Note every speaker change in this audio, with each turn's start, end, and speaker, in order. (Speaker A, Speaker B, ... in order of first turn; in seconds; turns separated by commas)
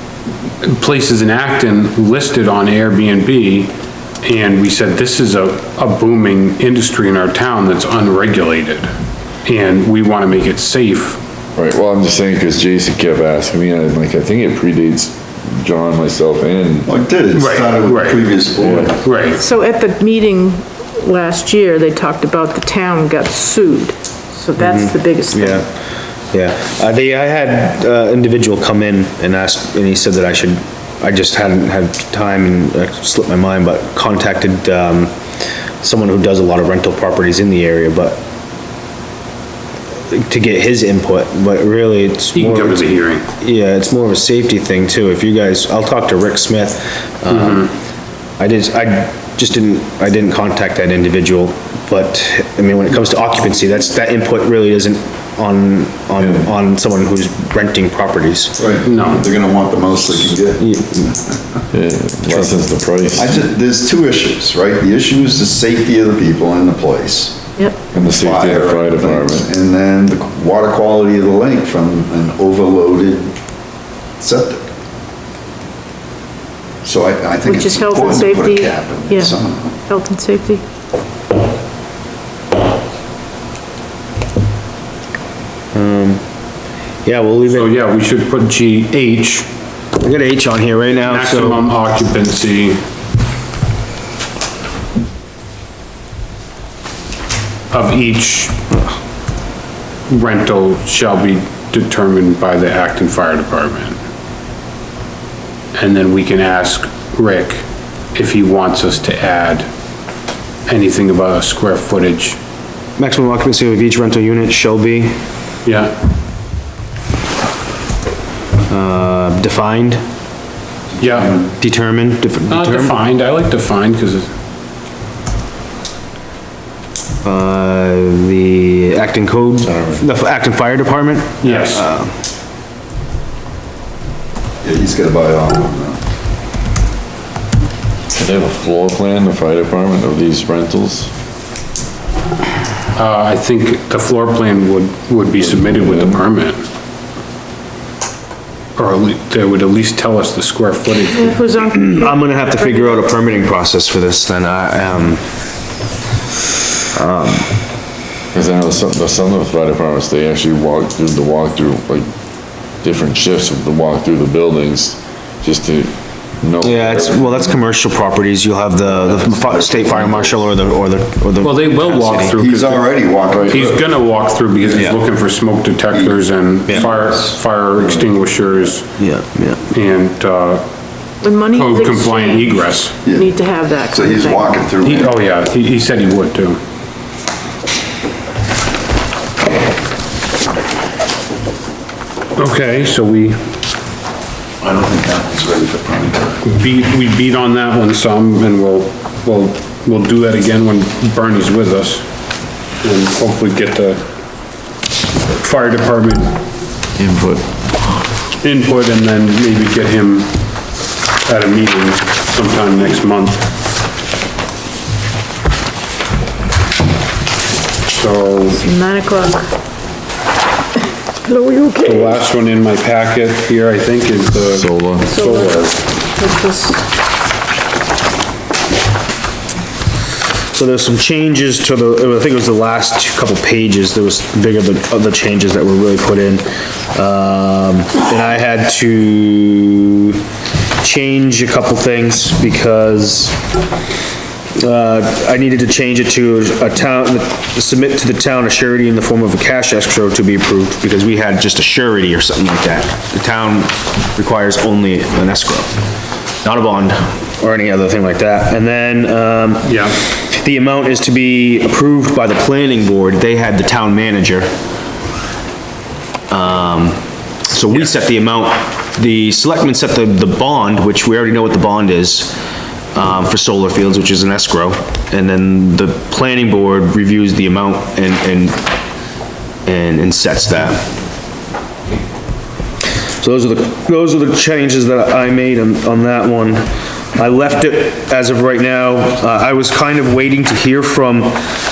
Speaker A: 0.6-3.7, Speaker A: 4.2-8.9, Speaker A: 9.4-11.2, Speaker B: 11.6-16.9, Speaker C: 16.9-19.0, Speaker A: 17.3-18.3, Speaker B: 18.6-18.9, Speaker A: 19.0-19.4, Speaker D: 19.4-25.6, Speaker E: 24.6-25.7, Speaker E: 26.3-35.1, Speaker E: 35.8-38.2, Speaker E: 40.1-42.9, Speaker A: 42.3-43.3, Speaker E: 43.4-47.7, Speaker A: 47.3-47.7, Speaker E: 48.4-58.6, Speaker C: 58.6-60.6, Speaker A: 58.8-59.3, Speaker E: 60.6-61.1, Speaker B: 61.7-63.3, Speaker C: 63.1-67.4, Speaker B: 67.9-69.5, Speaker C: 68.0-73.3, Speaker C: 74.2-74.6, Speaker C: 76.8-79.8, Speaker D: 77.5-79.4, Speaker D: 79.9-80.6, Speaker E: 85.7-86.2, Speaker E: 87.0-87.8, Speaker A: 87.5-89.5, Speaker E: 90.0-91.6, Speaker A: 91.0-92.8, Speaker A: 97.7-98.6, Speaker A: 100.1-104.0, Speaker A: 105.8-109.7, Speaker A: 110.7-112.4, Speaker E: 113.0-115.2, Speaker A: 115.7-116.0, Speaker E: 118.7-120.0, Speaker A: 121.0-121.4, Speaker C: 121.1-121.5, Speaker E: 121.6-123.0, Speaker A: 122.5-124.3, Speaker E: 127.2-132.1, Speaker B: 129.6-130.0, Speaker A: 131.4-131.9, Speaker C: 134.6-136.0, Speaker B: 138.1-141.1, Speaker A: 142.9-146.6, Speaker B: 145.4-146.2, Speaker A: 148.8-151.4, Speaker D: 151.1-153.0, Speaker E: 151.6-155.3, Speaker E: 156.9-157.5, Speaker B: 158.3-167.5, Speaker E: 166.6-172.3, Speaker C: 169.4-170.3, Speaker A: 171.4-178.9, Speaker C: 172.3-173.9, Speaker B: 173.3-173.6, Speaker E: 174.7-175.0, Speaker C: 176.7-177.0, Speaker E: 179.0-179.6, Speaker A: 179.7-180.7, Speaker D: 181.2-184.6, Speaker A: 181.5-183.0, Speaker C: 183.0-185.1, Speaker A: 184.8-186.6, Speaker A: 192.4-193.4, Speaker C: 194.6-196.4, Speaker A: 196.4-202.1, Speaker A: 202.8-204.0, Speaker A: 205.3-206.3, Speaker B: 207.0-207.6, Speaker A: 208.4-210.3, Speaker A: 211.2-213.5, Speaker A: 217.9-218.6, Speaker D: 218.6-219.5, Speaker D: 221.3-221.9, Speaker A: 221.8-225.8, Speaker B: 224.5-225.1, Speaker D: 225.1-226.8, Speaker E: 230.5-240.2, Speaker E: 240.8-243.4, Speaker E: 244.6-255.7, Speaker E: 256.4-264.5, Speaker A: 259.6-260.0, Speaker E: 266.3-272.4, Speaker E: 272.9-278.6, Speaker E: 279.7-280.9, Speaker E: 283.2-291.4